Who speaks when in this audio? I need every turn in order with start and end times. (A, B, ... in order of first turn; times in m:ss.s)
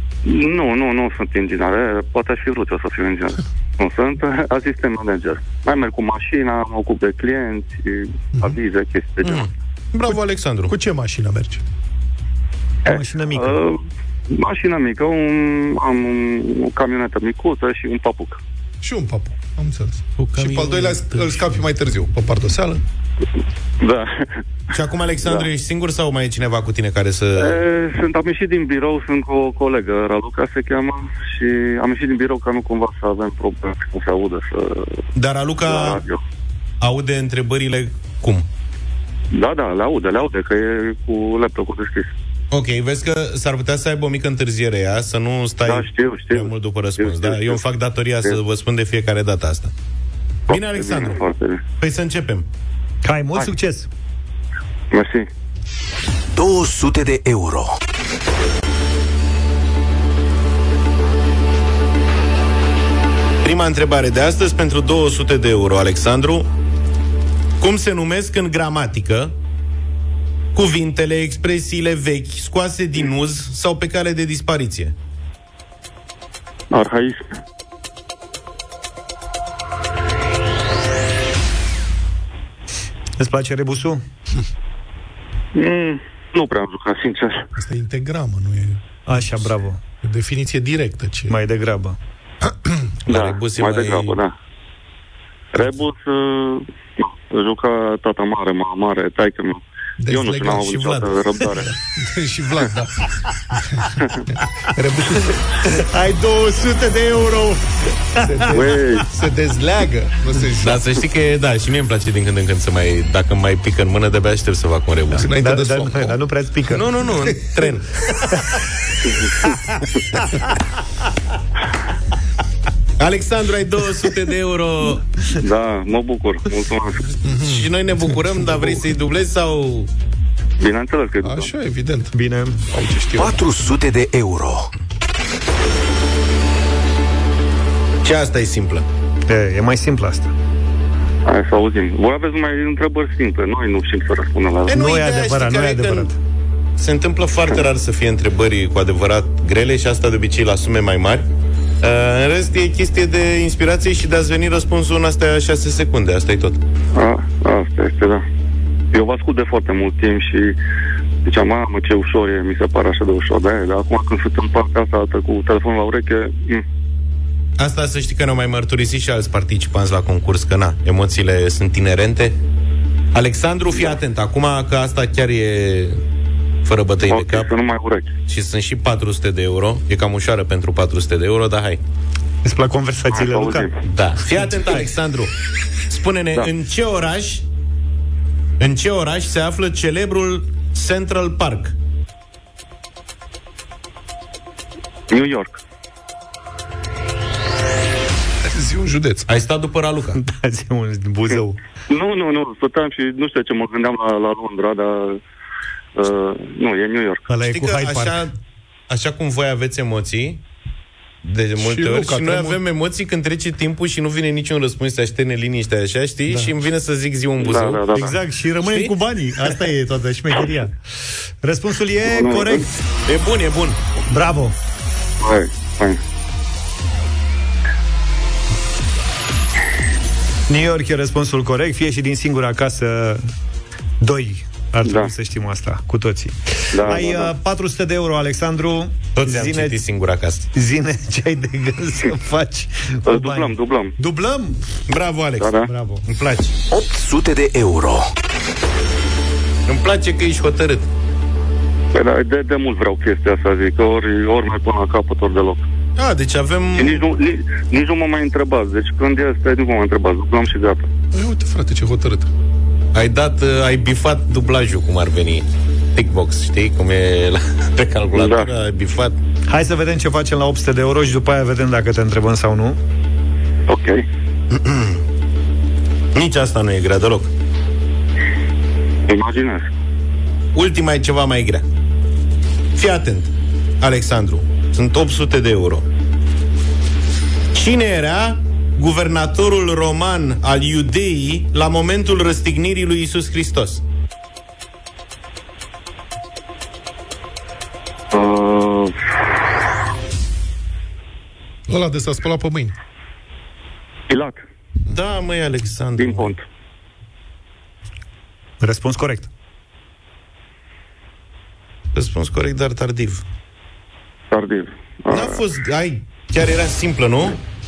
0:00.2-0:09.4 A
0:09.2-0:10.7 B
0:10.1-0:11.6 C
0:12.8-0:13.6 D
0:12.9-0:13.8 A
0:14.3-0:18.4 A
0:18.8-0:22.8 C
0:20.2-0:21.6 B
0:23.8-0:24.2 A
0:24.7-0:27.6 B
0:27.4-0:35.0 A
0:35.2-0:36.0 B
0:35.6-0:36.2 A
0:36.8-0:38.4 B
0:39.3-0:42.1 A
0:42.5-0:49.7 B
0:45.6-0:47.6 A
0:50.5-0:51.6 A
0:50.5-0:51.2 B
0:51.8-0:52.4 B
0:53.0-0:53.9 D
0:54.9-0:55.2 A
0:56.4-0:57.7 E
1:03.4-1:06.5 B
1:07.6-1:09.3 B
1:10.5-1:14.9 B
1:16.7-1:17.2 A
1:23.2-1:24.0 D
1:25.6-1:27.4 A
1:27.6-1:28.8 C
1:29.1-1:29.8 D
1:30.0-1:31.4 C
1:31.3-1:32.0 D
1:32.4-1:32.9 C
1:33.1-1:34.2 B
1:33.1-1:34.3 A
1:35.5-1:41.7 A
1:40.0-1:43.9 C
1:44.7-1:45.4 C
1:45.7-1:47.6 D
1:48.2-1:48.7 D
1:48.2-1:50.8 C
1:48.5-1:49.0 A
1:50.6-1:55.3 B
1:55.1-1:56.2 C
1:55.4-1:56.8 D
1:56.7-1:57.9 B
1:57.3-1:57.6 C
2:03.0-2:05.0 B
2:05.4-2:07.0 A
2:07.2-2:08.8 C
2:07.4-2:09.9 B
2:10.6-2:11.5 A
2:11.2-2:12.1 C
2:12.1-2:12.6 D
2:12.7-2:13.4 C
2:13.2-2:14.7 E
2:18.0-2:18.8 B
2:19.3-2:20.3 D
2:21.2-2:24.8 A
2:24.7-2:26.1 B
2:24.7-2:26.2 D
2:26.8-2:31.2 B
2:31.8-2:36.6 B
2:36.9-2:38.2 A
2:38.9-2:40.6 A
2:41.2-2:46.6 A
2:47.6-2:52.4 B
2:53.1-2:56.0 B
2:56.6-2:57.5 B
2:57.1-2:58.1 A
2:58.3-3:01.8 B
3:02.4-3:03.7 D
3:03.1-3:03.8 A
3:03.9-3:05.3 B
3:04.3-3:04.8 D
3:05.9-3:07.4 B
3:08.6-3:11.7 B
3:15.1-3:15.6 A
3:18.4-3:19.3 C
3:19.3-3:20.2 B
3:20.2-3:21.6 D
3:21.9-3:25.2 A
3:26.0-3:27.3 A
3:27.3-3:28.2 D
3:27.4-3:28.3 B
3:28.9-3:30.4 B
3:31.2-3:37.8 B
3:31.6-3:32.6 C
3:37.4-3:38.2 A
3:37.9-3:42.7 D
3:38.6-3:38.9 B
3:42.0-3:42.6 A
3:43.1-3:43.8 B
3:44.1-3:44.5 D
3:45.2-3:46.0 A
3:50.5-3:53.3 D
3:54.0-3:59.8 D
3:54.8-3:55.1 A
3:56.7-3:57.3 A
3:59.2-4:00.5 B
4:00.5-4:04.6 D
4:03.0-4:03.9 A
4:04.9-4:05.5 B
4:05.4-4:05.7 A
4:05.6-4:06.0 D
4:06.0-4:06.5 B
4:06.7-4:08.1 E
4:09.7-4:10.8 B
4:11.9-4:15.6 A
4:16.0-4:17.0 B
4:16.8-4:20.8 A
4:21.1-4:22.3 C
4:22.9-4:29.2 B
4:28.1-4:28.5 A
4:29.5-4:32.8 D
4:33.7-4:34.0 A
4:34.5-4:35.0 B
4:36.1-4:37.3 B
4:39.1-4:39.7 A
4:40.5-4:41.6 B
4:42.8-4:45.8 B
4:47.5-4:53.8 B
4:58.1-4:58.9 A
5:01.7-5:02.7 C
5:04.1-5:04.4 A
5:04.9-5:06.3 B
5:06.0-5:06.4 A
5:08.6-5:09.3 D
5:11.9-5:13.2 B
5:14.3-5:15.4 A
5:15.1-5:17.4 B